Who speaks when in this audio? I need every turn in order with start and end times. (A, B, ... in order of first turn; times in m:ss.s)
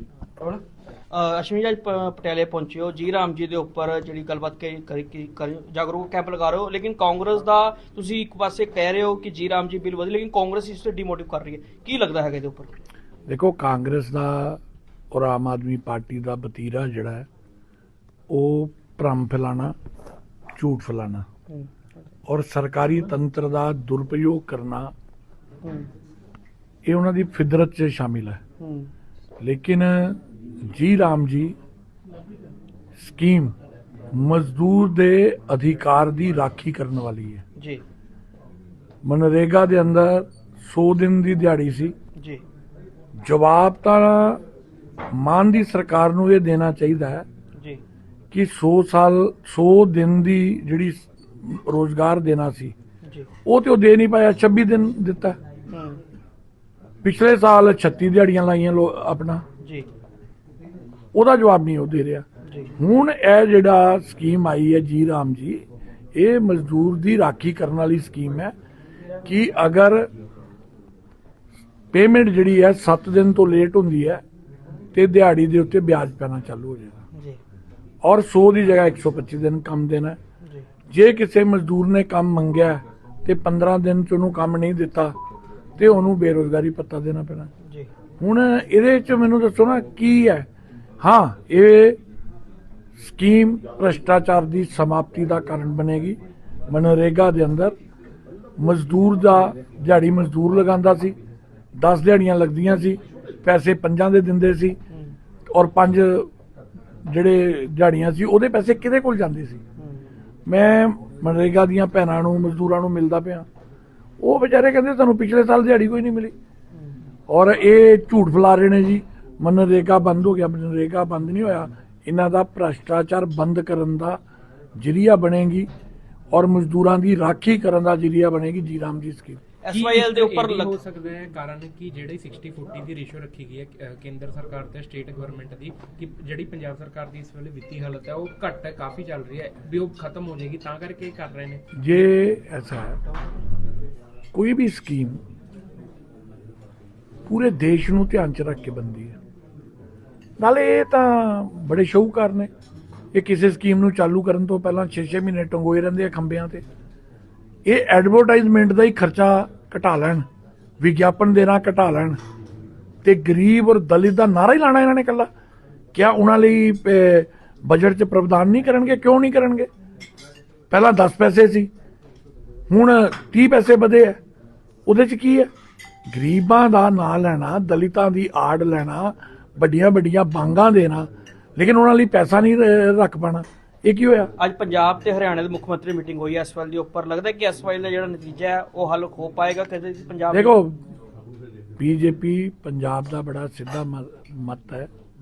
0:00.4-0:12.7 A
0:13.3-0:14.6 B
0:15.1-0:17.3 B
0:18.3-0:19.8 B
0:20.6-0:21.3 B
0:22.3-0:24.9 B
0:25.6-0:25.9 A
0:26.8-0:28.4 B
0:28.6-0:28.9 A
0:29.4-0:31.6 B
0:33.0-0:33.6 B
0:34.1-0:37.4 B
0:37.6-0:37.8 A
0:39.0-0:42.0 B
0:42.2-0:42.4 A
0:43.2-0:44.4 B
0:45.1-0:47.3 B
0:47.6-0:47.8 A
0:48.3-0:52.7 B
0:53.0-0:53.3 A
0:53.4-0:55.4 B
0:55.7-0:56.0 A
0:57.0-0:59.4 B
0:59.6-0:59.9 A
1:01.1-1:02.3 B
1:02.4-1:02.7 A
1:02.8-1:05.6 B
1:06.2-1:08.5 B
1:09.2-1:10.1 B
1:11.9-1:14.2 B
1:14.9-1:17.0 B
1:17.1-1:17.4 A
1:18.0-1:20.2 B
1:20.9-1:25.2 B
1:25.8-1:27.5 B
1:27.6-1:27.9 A
1:28.2-1:30.5 B
1:31.0-1:32.0 B
1:33.0-1:37.8 B
1:38.6-1:41.2 B
1:41.8-1:44.8 B
1:45.5-1:46.3 B
1:47.1-1:49.6 B
1:49.8-1:50.1 A
1:50.5-1:53.5 B
1:54.2-1:56.3 B
1:57.3-2:04.2 B
2:04.8-2:05.7 B
2:06.3-2:09.4 B
2:09.6-2:10.8 A
2:09.7-2:21.6 C
2:21.7-2:23.0 B
2:24.3-2:25.2 B
2:27.3-2:29.2 B
2:30.4-2:32.5 B
2:33.1-2:36.6 B
2:37.7-2:40.3 B
2:40.8-2:42.2 B
2:43.0-2:45.3 B
2:45.9-2:49.7 B
2:50.7-2:51.7 B
2:52.7-2:54.2 B
2:54.9-2:55.5 B
2:56.1-3:04.3 B
3:04.4-3:10.6 A
3:10.3-3:10.8 B
3:11.8-3:14.9 B